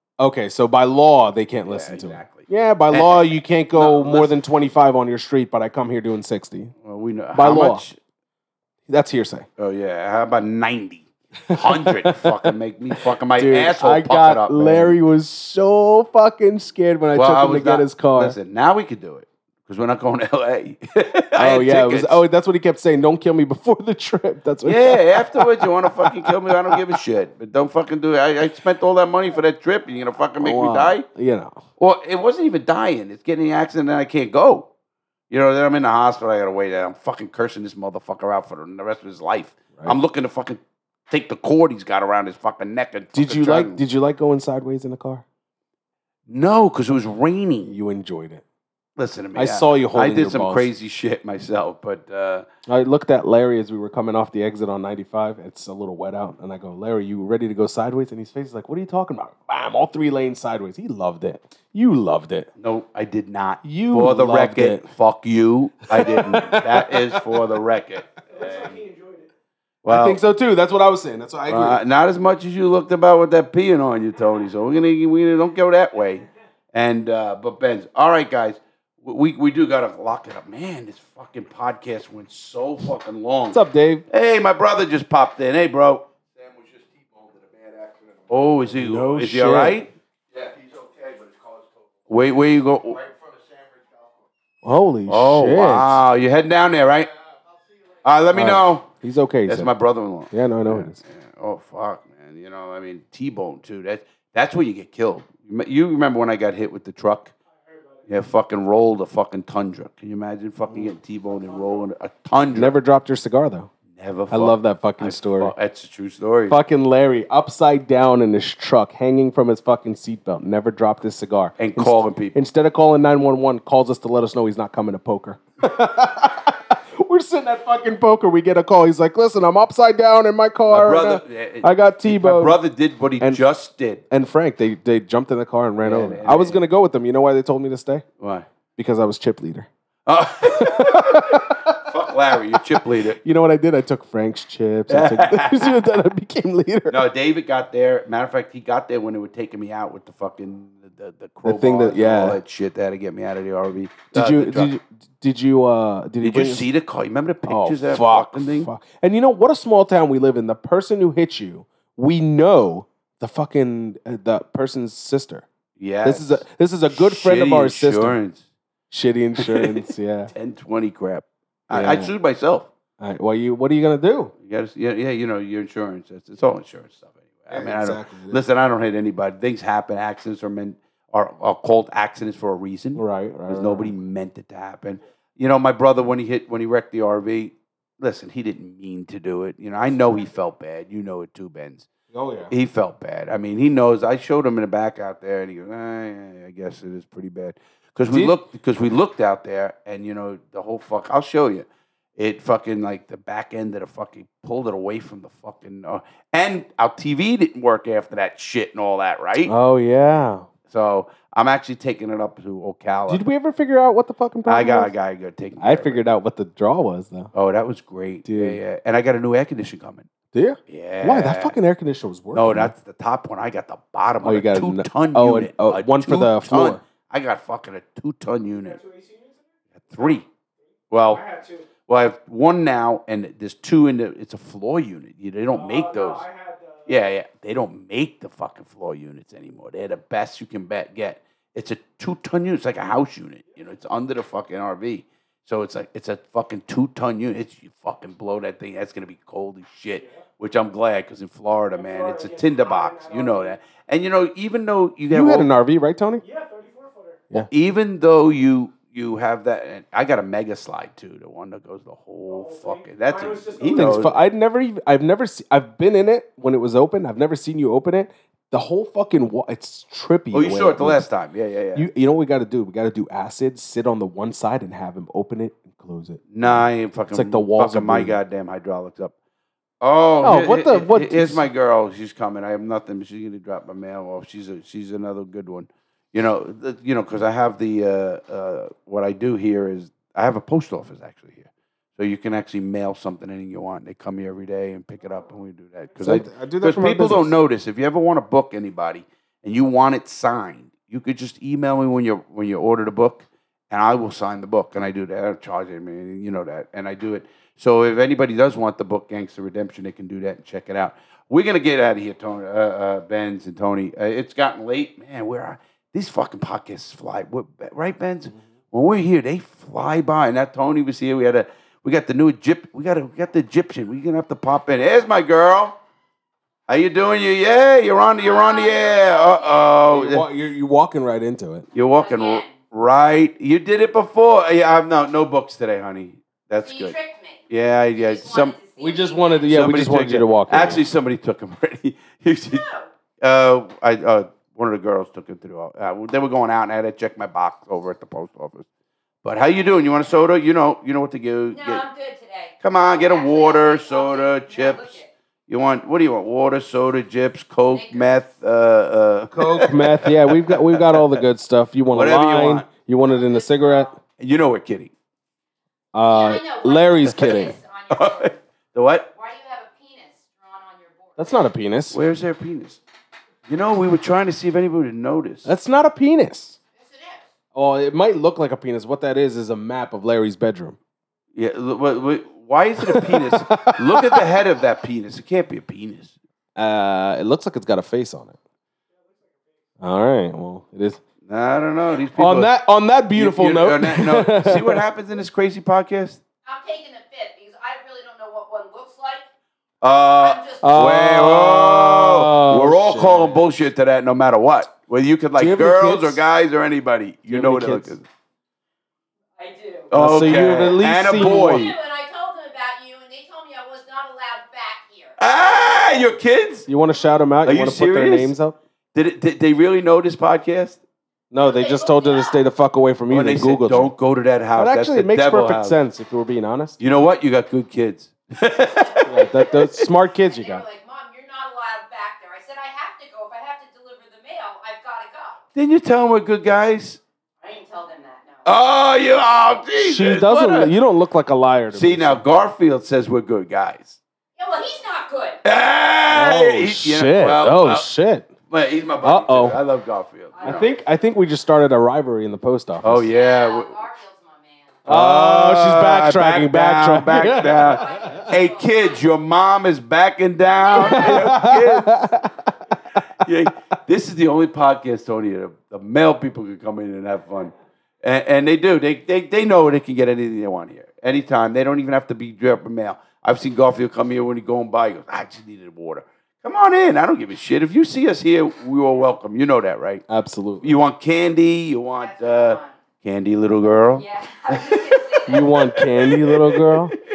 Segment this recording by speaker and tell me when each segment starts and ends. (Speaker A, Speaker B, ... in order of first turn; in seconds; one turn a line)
Speaker A: 0.2-6.7
Speaker B: 1.7-4.3
Speaker B: 6.8-8.0
Speaker A: 7.3-7.8
Speaker A: 8.9-9.5
Speaker B: 9.6-15.0
Speaker A: 11.5-18.4
Speaker B: 17.1-22.2
Speaker A: 21.4-26.8
Speaker B: 24.6-31.1
Speaker A: 30.4-31.6
Speaker B: 31.8-34.7
Speaker B: 35.3-43.8
Speaker A: 43.1-45.2
Speaker B: 46.3-47.8
Speaker A: 47.7-48.4
Speaker B: 49.0-52.5
Speaker A: 49.4-50.7
Speaker A: 52.7-62.5
Speaker B: 62.6-68.8
Speaker A: 63.6-64.9
Speaker A: 65.9-67.2
Speaker C: 68.3-69.3
Speaker B: 69.8-70.2
Speaker A: 69.9-71.8
Speaker B: 71.5-86.1
Speaker A: 83.5-84.0
Speaker D: 86.4-87.9
Speaker B: 88.3-89.9
Speaker A: 88.8-89.8
Speaker D: 90.5-91.5
Speaker B: 92.1-93.1
Speaker A: 94.6-96.0
Speaker B: 95.1-97.1
Speaker B: 98.0-98.9
Speaker A: 98.3-99.7
Speaker B: 99.5-107.3
Speaker A: 100.3-101.0
Speaker C: 107.6-108.1
Speaker B: 108.1-112.8
Speaker C: 111.5-111.7
Speaker A: 112.5-113.7
Speaker B: 113.9-116.6
Speaker A: 114.3-115.5
Speaker A: 116.5-132.6
Speaker B: 121.6-122.4
Speaker B: 130.7-134.0
Speaker A: 134.1-138.1
Speaker B: 135.8-136.6
Speaker B: 138.2-138.5
Speaker A: 138.8-139.7
Speaker B: 140.1-143.2
Speaker A: 140.5-141.8
Speaker A: 143.2-147.0
Speaker B: 144.9-145.8
Speaker B: 146.9-154.7
Speaker A: 151.4-152.4
Speaker A: 154.1-156.7
Speaker B: 156.2-158.7
Speaker A: 157.5-165.4
Speaker B: 165.8-168.4
Speaker A: 166.0-168.2
Speaker A: 168.9-170.3
Speaker B: 169.4-169.8
Speaker B: 170.3-172.7
Speaker A: 171.7-172.1
Speaker A: 173.0-174.3
Speaker B: 174.4-191.9
Speaker A: 177.5-178.4
Speaker A: 183.0-183.9
Speaker A: 192.1-192.5
Speaker B: 192.5-209.5
Speaker A: 198.1-198.4
Speaker A: 209.5-210.5
Speaker B: 210.7-213.2
Speaker A: 213.1-214.9
Speaker B: 214.5-216.0
Speaker A: 215.6-217.3
Speaker B: 217.3-220.1
Speaker A: 218.2-218.6
Speaker A: 220.3-222.7
Speaker B: 220.7-221.6
Speaker B: 222.3-228.8
Speaker A: 224.2-226.8
Speaker C: 228.5-230.2
Speaker B: 229.9-230.2
Speaker B: 230.9-231.2
Speaker C: 231.1-231.7
Speaker B: 231.9-236.2
Speaker C: 235.5-237.0
Speaker B: 236.9-255.5
Speaker C: 251.7-253.6
Speaker A: 255.1-256.2
Speaker C: 256.2-257.2
Speaker B: 257.5-264.1
Speaker C: 262.3-264.0
Speaker A: 263.7-271.0
Speaker B: 270.3-271.9
Speaker A: 271.8-278.2
Speaker B: 276.3-279.1
Speaker B: 279.8-325.8
Speaker A: 280.2-281.4
Speaker A: 296.0-297.3
Speaker B: 326.7-330.3
Speaker E: 328.2-329.9
Speaker A: 329.9-331.7
Speaker B: 331.7-337.0
Speaker E: 331.9-332.6
Speaker E: 336.6-339.6
Speaker B: 337.5-338.6
Speaker A: 338.8-340.8
Speaker B: 339.5-342.7
Speaker E: 342.5-342.9
Speaker B: 343.2-348.7
Speaker B: 349.2-351.8
Speaker E: 351.5-355.1
Speaker B: 352.6-361.2
Speaker E: 357.7-358.1
Speaker A: 359.4-363.9
Speaker B: 361.9-362.7
Speaker E: 363.1-363.9
Speaker B: 364.2-364.9
Speaker A: 365.9-367.6
Speaker E: 366.1-368.4
Speaker B: 367.9-369.1
Speaker E: 369.1-371.4
Speaker A: 371.2-372.0
Speaker B: 371.9-372.8
Speaker B: 373.5-375.5
Speaker A: 375.4-376.6
Speaker E: 376.7-377.3
Speaker A: 377.5-380.8
Speaker B: 381.4-386.1
Speaker A: 382.8-384.2
Speaker A: 386.6-388.4
Speaker C: 389.1-389.3
Speaker A: 389.8-391.0
Speaker B: 391.3-392.5
Speaker A: 392.1-394.8
Speaker B: 393.1-396.2
Speaker E: 396.4-399.2
Speaker B: 399.8-408.0
Speaker E: 400.2-400.8
Speaker A: 400.6-403.5
Speaker A: 405.4-406.2
Speaker A: 407.3-408.0
Speaker E: 409.4-409.9
Speaker B: 409.9-411.8
Speaker A: 409.9-411.7
Speaker E: 411.1-415.2
Speaker B: 415.2-416.7
Speaker A: 416.7-418.6
Speaker B: 417.4-418.3
Speaker B: 418.9-420.8
Speaker A: 421.3-423.9
Speaker E: 421.4-422.4
Speaker B: 423.1-425.8
Speaker A: 424.6-426.8
Speaker B: 426.8-429.7
Speaker E: 428.7-435.4
Speaker A: 429.1-430.6
Speaker B: 435.6-437.0
Speaker E: 437.4-438.4
Speaker B: 438.4-440.7
Speaker A: 439.8-442.2
Speaker B: 441.7-444.0
Speaker E: 444.4-445.4
Speaker B: 445.4-447.9
Speaker A: 446.1-448.3
Speaker B: 448.5-450.7
Speaker A: 449.0-449.6
Speaker E: 450.3-450.7
Speaker A: 450.4-453.1
Speaker B: 452.8-453.8
Speaker E: 453.1-454.8
Speaker B: 454.9-462.1
Speaker A: 454.9-458.3
Speaker E: 457.3-459.1
Speaker E: 460.6-461.3
Speaker A: 460.7-463.0
Speaker B: 463.0-480.1
Speaker A: 480.1-480.7
Speaker B: 480.6-484.0
Speaker E: 482.0-482.8
Speaker E: 483.9-485.6
Speaker A: 485.3-487.0
Speaker B: 486.0-486.8